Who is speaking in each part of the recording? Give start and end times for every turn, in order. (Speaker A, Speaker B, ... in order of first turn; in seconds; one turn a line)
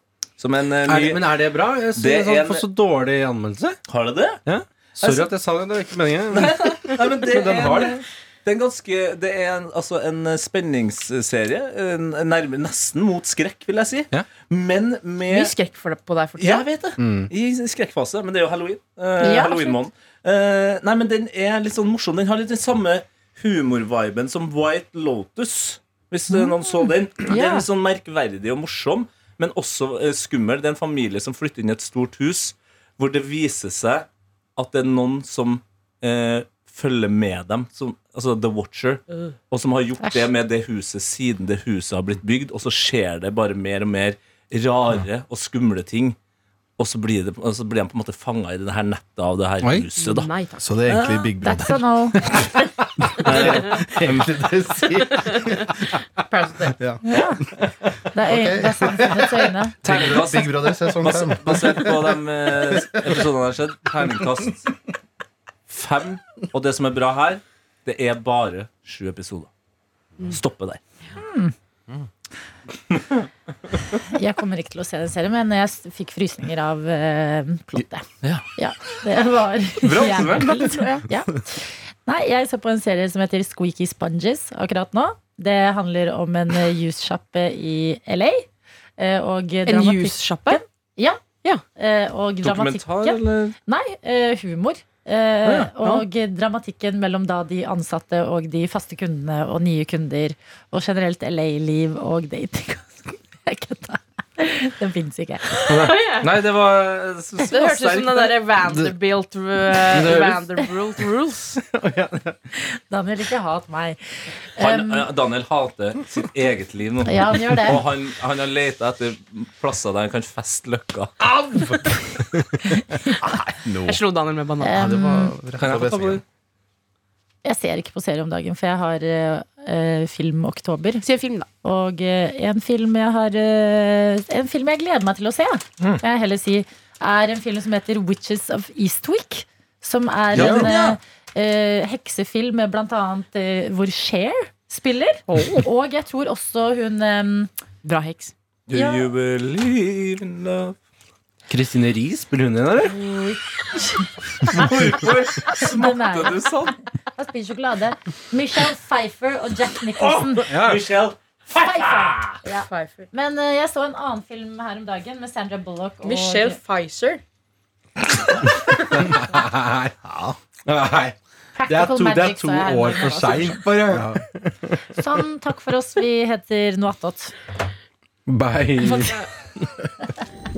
Speaker A: 0.4-1.2
Speaker B: 0.8-3.8
Speaker A: 1.9-2.6
Speaker A: 3.9-4.4
Speaker B: 4.5-8.0
Speaker A: 5.0-5.3
Speaker A: 6.3-15.5
Speaker C: 15.2-16.6
Speaker A: 16.4-46.1
Speaker B: 17.0-17.3
Speaker D: 19.2-19.8
Speaker D: 26.3-27.6
Speaker D: 40.0-40.3
Speaker A: 46.8-50.3
Speaker B: 49.6-49.9
Speaker C: 50.0-50.6
Speaker E: 50.6-51.8
Speaker D: 50.9-52.2
Speaker E: 53.2-56.0
Speaker A: 53.2-54.3
Speaker C: 56.3-56.7
Speaker E: 56.6-57.0
Speaker D: 57.0-57.4
Speaker D: 58.1-59.8
Speaker E: 58.2-63.2
Speaker A: 59.8-64.6
Speaker E: 64.0-64.5
Speaker A: 65.7-69.5
Speaker A: 70.3-70.8
Speaker D: 71.2-71.5
Speaker D: 74.0-91.2
Speaker A: 79.8-80.6
Speaker C: 80.1-81.1
Speaker C: 89.7-90.6
Speaker D: 91.8-105.8
Speaker A: 92.4-93.5
Speaker C: 95.8-96.0
Speaker C: 105.6-106.3
Speaker A: 105.7-108.3
Speaker C: 107.4-111.6
Speaker B: 109.9-110.4
Speaker B: 111.5-112.4
Speaker D: 112.5-114.0
Speaker D: 114.5-115.1
Speaker A: 114.6-121.1
Speaker D: 117.0-117.8
Speaker E: 121.2-122.5
Speaker D: 122.6-123.2
Speaker E: 123.2-124.0
Speaker C: 123.8-125.0
Speaker D: 124.6-125.3
Speaker E: 124.7-126.2
Speaker A: 125.6-126.2
Speaker D: 127.4-131.0
Speaker C: 131.0-131.5
Speaker D: 131.6-147.5
Speaker A: 140.3-141.0
Speaker C: 140.4-140.7
Speaker C: 145.3-145.7
Speaker C: 147.8-148.3
Speaker A: 148.7-150.8
Speaker D: 148.7-149.1
Speaker B: 151.5-153.0
Speaker D: 152.8-154.7
Speaker A: 154.5-156.8
Speaker D: 155.5-156.4
Speaker D: 157.2-160.4
Speaker A: 160.0-162.4
Speaker B: 160.5-160.9
Speaker D: 161.5-166.6
Speaker C: 162.4-163.1
Speaker C: 166.0-167.2
Speaker B: 168.9-169.9
Speaker E: 170.1-170.4
Speaker B: 170.7-171.2
Speaker D: 171.6-173.7
Speaker B: 171.7-174.8
Speaker D: 174.9-177.3
Speaker B: 178.2-179.8
Speaker C: 178.8-179.3